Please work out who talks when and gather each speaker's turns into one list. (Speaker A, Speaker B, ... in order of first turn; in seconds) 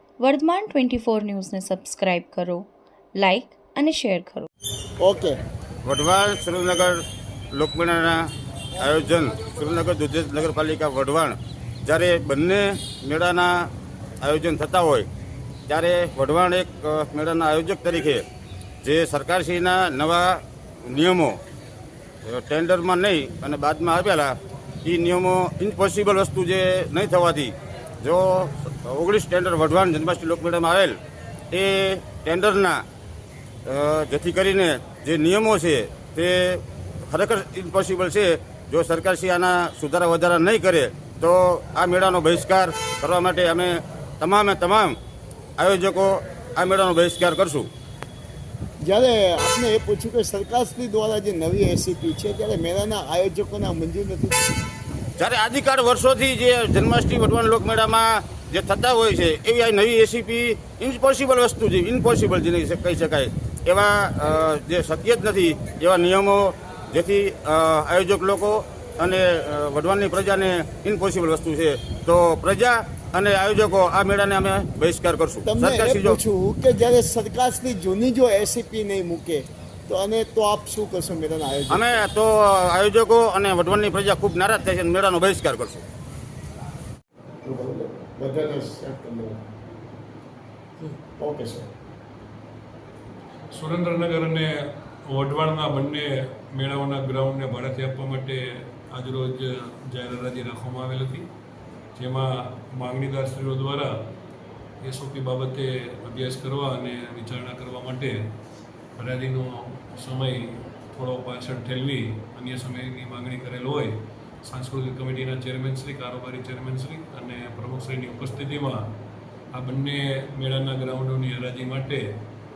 Speaker A: 0.2-4.5
Speaker B: 5.0-5.4, 48.8-54.4, 75.5-82.1, 87.4-89.4, 90.8-91.7
Speaker C: 6.0-6.9, 7.5-8.2, 9.1-13.5, 14.2-15.1, 15.7-18.2, 18.8-21.4, 22.3-31.0, 31.5-32.8, 33.8-36.6, 37.1-45.0, 45.6-47.7, 55.2-76.2, 81.7-85.8
Speaker D: 93.5-94.5, 95.1-98.4, 98.9-101.3, 102.0-103.9, 104.8-108.2, 109.0-113.9, 114.5-118.8, 119.5-122.0